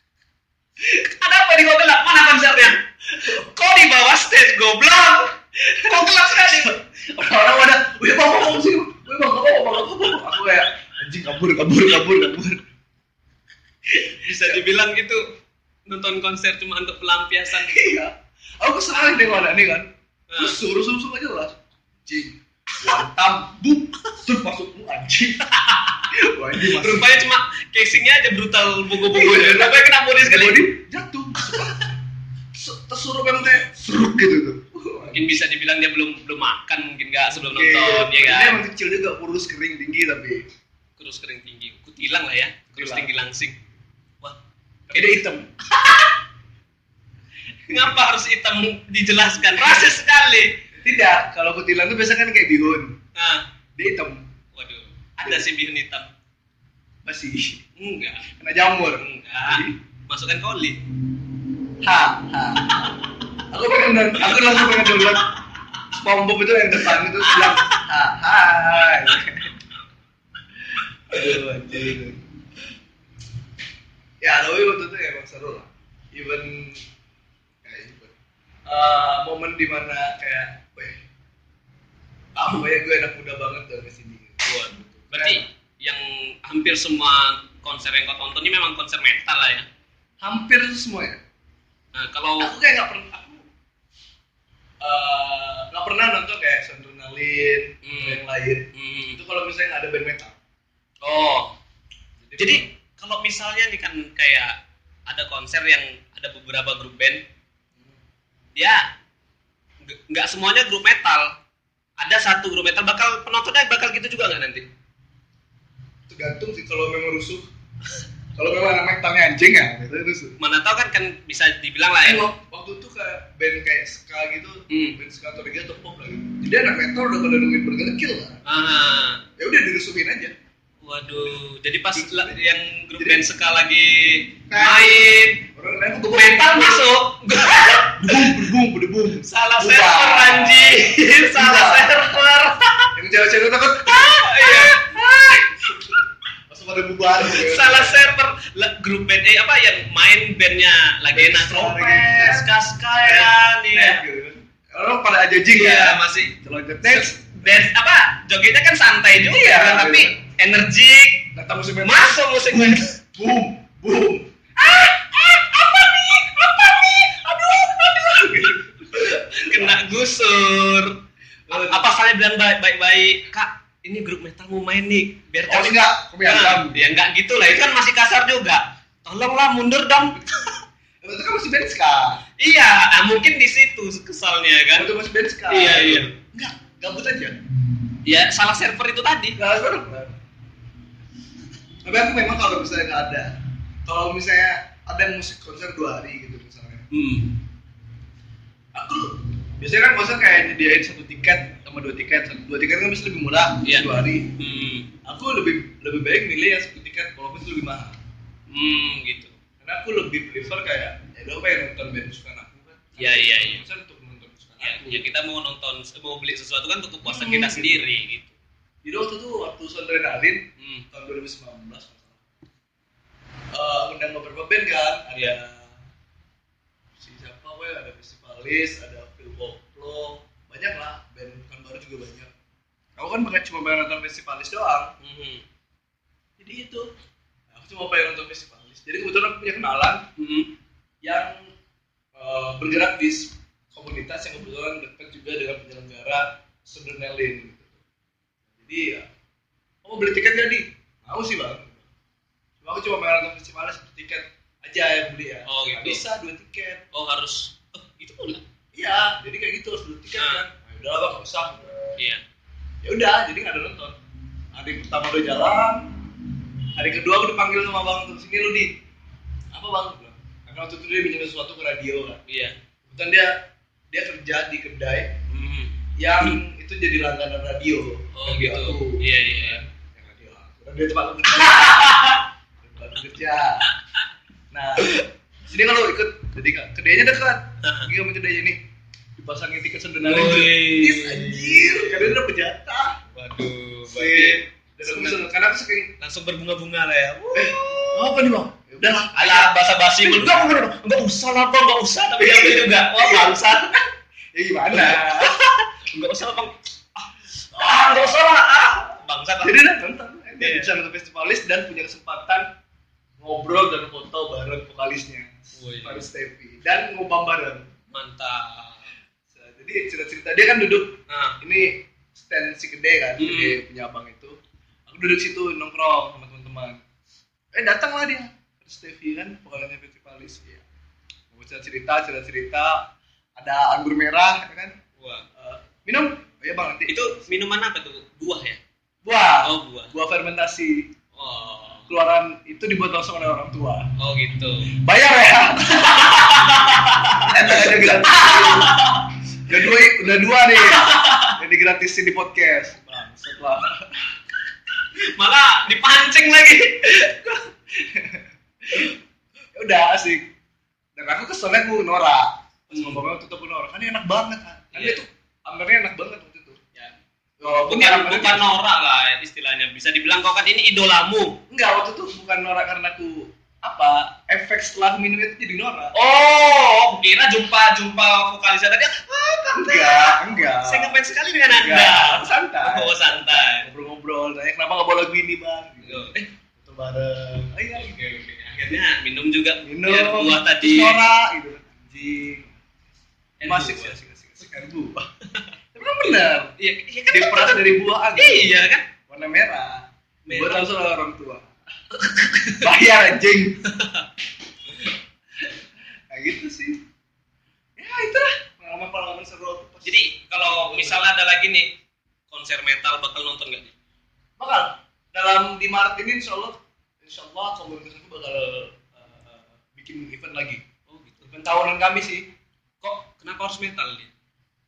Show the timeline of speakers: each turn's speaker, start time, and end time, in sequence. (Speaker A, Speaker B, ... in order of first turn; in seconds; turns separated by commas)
Speaker A: 0.8-6.8, Speaker B: 3.1-3.5, Speaker B: 5.6-12.7, Speaker B: 13.9-14.7, Speaker A: 14.2-15.3, Speaker A: 15.9-17.9, Speaker B: 17.5-25.4, Speaker A: 20.3-20.6, Speaker A: 25.4-30.7, Speaker B: 26.1-27.1, Speaker B: 29.1-32.0, Speaker B: 32.5-35.3, Speaker A: 35.0-38.6, Speaker B: 37.3-40.5, Speaker A: 41.0-43.6, Speaker B: 42.7-43.1, Speaker B: 44.9-45.5, Speaker A: 44.9-46.1, Speaker A: 47.7-50.6, Speaker B: 50.8-53.0, Speaker A: 53.1-53.5, Speaker B: 53.8-54.3, Speaker A: 54.5-56.1, Speaker B: 57.0-57.6, Speaker A: 57.8-58.3, Speaker B: 58.3-59.8, Speaker A: 58.9-60.8, Speaker B: 61.8-65.4, Speaker B: 65.9-69.6, Speaker A: 66.9-67.8, Speaker B: 70.7-72.2, Speaker B: 74.2-76.8, Speaker B: 77.6-78.1, Speaker B: 78.7-81.0, Speaker B: 82.3-85.5, Speaker A: 84.4-89.7, Speaker B: 90.2-91.2, Speaker A: 91.9-92.5, Speaker B: 92.4-93.5, Speaker B: 94.8-100.4, Speaker A: 97.8-98.2, Speaker A: 98.7-99.2, Speaker A: 101.0-101.5, Speaker B: 102.2-102.7, Speaker A: 102.4-104.5, Speaker A: 105.1-107.2, Speaker A: 108.6-108.8, Speaker A: 109.8-111.4, Speaker A: 112.0-114.7, Speaker B: 116.1-117.5, Speaker B: 118.3-120.4, Speaker A: 120.4-122.3, Speaker B: 122.0-128.4, Speaker A: 124.7-125.0, Speaker A: 128.4-129.2, Speaker B: 129.4-130.3, Speaker A: 130.8-135.5, Speaker B: 131.9-132.4, Speaker B: 133.0-133.2, Speaker B: 134.5-136.9, Speaker A: 136.1-138.4, Speaker B: 137.8-142.2, Speaker A: 139.2-142.9, Speaker B: 142.9-148.1, Speaker A: 143.9-145.0, Speaker A: 147.2-154.0, Speaker B: 151.1-157.6, Speaker A: 155.5-161.3, Speaker B: 159.2-160.2, Speaker B: 161.3-170.0, Speaker A: 161.8-163.0, Speaker A: 169.4-171.0, Speaker B: 171.5-171.9, Speaker A: 171.5-180.5, Speaker B: 175.5-176.9, Speaker B: 181.0-182.2, Speaker A: 182.4-184.9, Speaker B: 184.8-187.4, Speaker A: 185.5-186.1, Speaker A: 188.1-189.4, Speaker B: 189.4-190.2, Speaker B: 191.8-196.9, Speaker A: 196.9-197.4, Speaker B: 198.8-204.3, Speaker A: 203.6-204.9, Speaker B: 205.0-208.0, Speaker A: 208.5-209.4, Speaker B: 209.6-215.1, Speaker A: 213.0-213.6, Speaker A: 214.6-218.4, Speaker B: 217.0-217.9, Speaker B: 218.8-222.2, Speaker A: 220.6-220.9, Speaker B: 223.5-225.8, Speaker B: 227.0-232.3, Speaker B: 233.0-234.9, Speaker A: 235.0-235.4, Speaker B: 236.4-236.9, Speaker B: 237.5-240.1, Speaker A: 240.2-240.5, Speaker B: 241.0-241.5, Speaker B: 242.2-247.8, Speaker B: 248.5-249.1, Speaker B: 249.8-251.9, Speaker B: 252.6-256.9, Speaker A: 255.5-256.0, Speaker A: 256.9-258.4, Speaker B: 258.7-261.8, Speaker A: 260.2-260.4, Speaker A: 262.0-262.2, Speaker B: 262.8-264.0, Speaker B: 264.5-268.8, Speaker B: 269.5-272.2, Speaker A: 272.3-272.6, Speaker B: 272.9-273.4, Speaker B: 273.9-275.2, Speaker A: 275.3-276.4, Speaker B: 276.0-283.7, Speaker A: 278.1-279.6, Speaker A: 281.3-282.3, Speaker B: 284.5-288.6, Speaker A: 287.6-287.9, Speaker B: 289.2-293.0, Speaker A: 290.0-292.1, Speaker A: 293.1-295.3, Speaker B: 293.9-295.9, Speaker A: 296.0-298.2, Speaker B: 297.3-300.6, Speaker A: 299.1-303.7, Speaker B: 302.2-305.4, Speaker A: 304.7-309.6, Speaker B: 307.5-308.2, Speaker B: 309.4-312.5, Speaker A: 310.4-310.7, Speaker B: 313.2-317.7, Speaker A: 315.6-316.1, Speaker A: 317.9-318.9, Speaker B: 319.3-326.8, Speaker A: 321.1-321.4, Speaker A: 323.2-323.6, Speaker B: 327.5-330.6, Speaker B: 331.3-334.8, Speaker A: 335.0-335.2, Speaker B: 335.4-337.2, Speaker A: 336.9-338.6, Speaker B: 339.0-340.9, Speaker A: 339.4-339.9, Speaker A: 341.1-341.9, Speaker B: 341.9-343.9, Speaker A: 344.0-344.7, Speaker B: 344.7-346.6, Speaker A: 345.7-349.2, Speaker B: 347.2-348.9, Speaker B: 349.4-354.1, Speaker A: 350.6-351.4, Speaker A: 355.0-357.1, Speaker B: 356.8-359.0, Speaker B: 359.5-360.3, Speaker B: 361.0-366.6, Speaker A: 362.7-363.0, Speaker A: 364.7-365.0, Speaker A: 366.8-371.4, Speaker B: 367.4-368.6, Speaker B: 371.5-375.9, Speaker A: 375.9-383.7, Speaker B: 379.5-381.0, Speaker B: 381.6-388.0, Speaker A: 385.8-386.3, Speaker A: 387.7-391.0, Speaker B: 389.6-392.6, Speaker A: 393.4-393.9, Speaker B: 393.4-395.1, Speaker A: 395.3-395.5, Speaker B: 395.7-396.5, Speaker A: 396.6-398.9, Speaker B: 397.1-401.5, Speaker A: 400.3-400.7, Speaker A: 401.9-402.7, Speaker B: 402.6-403.6, Speaker A: 403.6-404.1, Speaker B: 405.4-406.8, Speaker B: 407.8-411.1, Speaker A: 409.9-411.7, Speaker A: 412.3-413.7, Speaker B: 414.4-420.6, Speaker A: 420.9-421.3, Speaker B: 421.3-422.3, Speaker A: 422.8-424.1